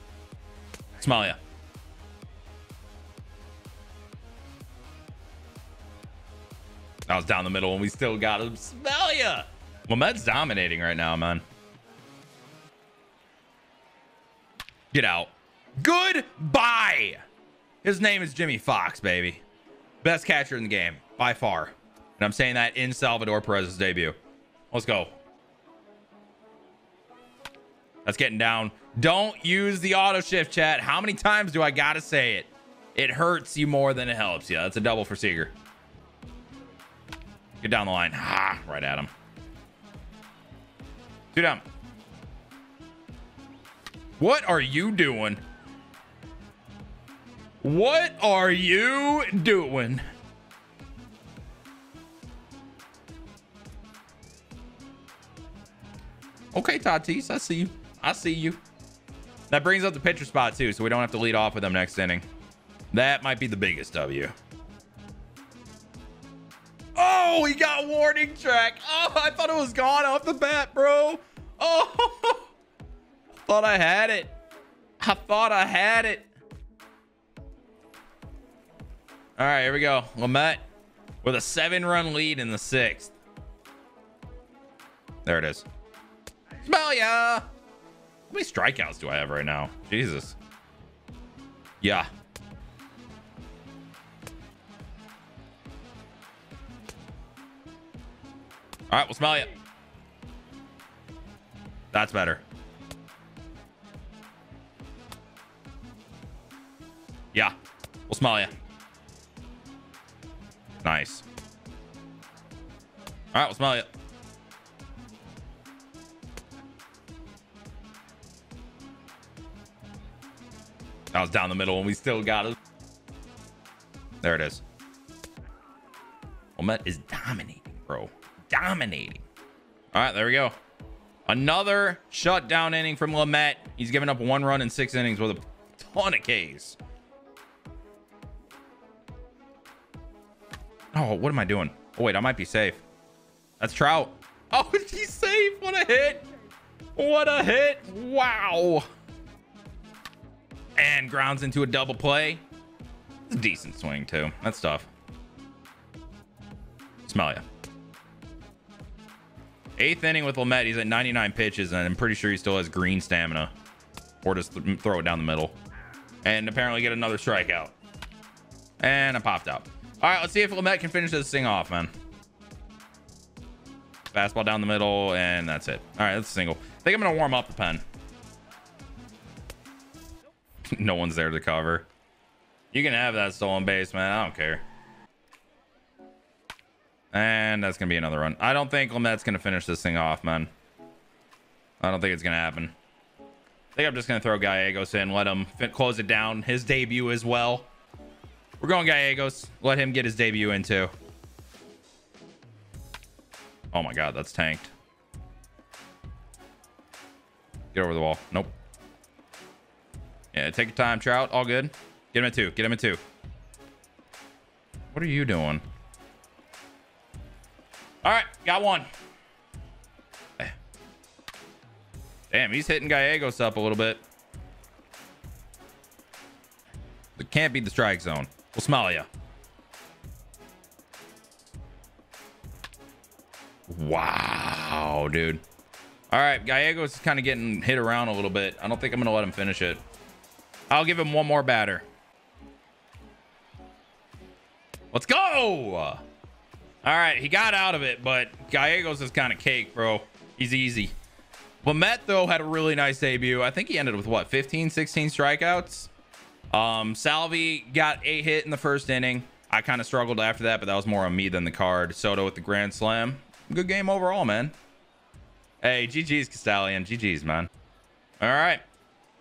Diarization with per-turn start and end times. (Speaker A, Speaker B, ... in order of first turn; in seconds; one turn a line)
Speaker A: 1.0-1.4
Speaker A: 7.1-11.4
Speaker A: 14.9-17.2
Speaker A: 17.8-19.4
Speaker A: 20.0-24.1
Speaker A: 24.7-25.1
Speaker A: 28.0-35.5
Speaker A: 37.6-39.1
Speaker A: 41.3-41.6
Speaker A: 44.2-45.4
Speaker A: 47.6-50.0
Speaker A: 56.5-58.6
Speaker A: 59.5-62.2
Speaker A: 62.9-64.3
Speaker A: 67.0-72.5
Speaker A: 73.4-74.3
Speaker A: 75.0-76.3
Speaker A: 79.4-80.6
Speaker A: 81.2-83.1
Speaker A: 85.2-85.7
Speaker A: 86.6-87.5
Speaker A: 88.3-90.3
Speaker A: 91.8-92.1
Speaker A: 98.9-99.5
Speaker A: 101.9-102.4
Speaker A: 108.1-108.5
Speaker A: 110.8-111.2
Speaker A: 113.3-113.9
Speaker A: 121.1-122.6
Speaker A: 124.2-124.6
Speaker A: 126.6-129.2
Speaker A: 129.9-130.6
Speaker A: 131.3-136.8
Speaker A: 140.9-142.8
Speaker A: 143.6-146.2
Speaker A: 146.9-148.9
Speaker A: 150.8-152.4
Speaker A: 153.3-154.9
Speaker A: 157.1-157.4
Speaker A: 159.8-163.5
Speaker A: 164.2-165.6
Speaker A: 166.2-167.7
Speaker A: 168.8-171.9
Speaker A: 174.1-177.8
Speaker A: 180.7-181.9
Speaker A: 182.7-184.7
Speaker A: 187.1-190.5
Speaker A: 191.8-192.7
Speaker A: 193.7-197.7
Speaker A: 198.6-200.9
Speaker A: 203.7-204.7
Speaker A: 207.7-208.5
Speaker A: 210.3-213.0
Speaker A: 214.9-215.6
Speaker A: 218.0-218.9
Speaker A: 222.3-224.0
Speaker A: 227.2-229.1
Speaker A: 233.7-235.4
Speaker A: 236.1-239.8
Speaker A: 240.7-241.8
Speaker A: 244.9-246.0
Speaker A: 246.8-250.9
Speaker A: 251.6-255.9
Speaker A: 256.5-264.6
Speaker A: 265.6-267.5
Speaker A: 268.2-268.6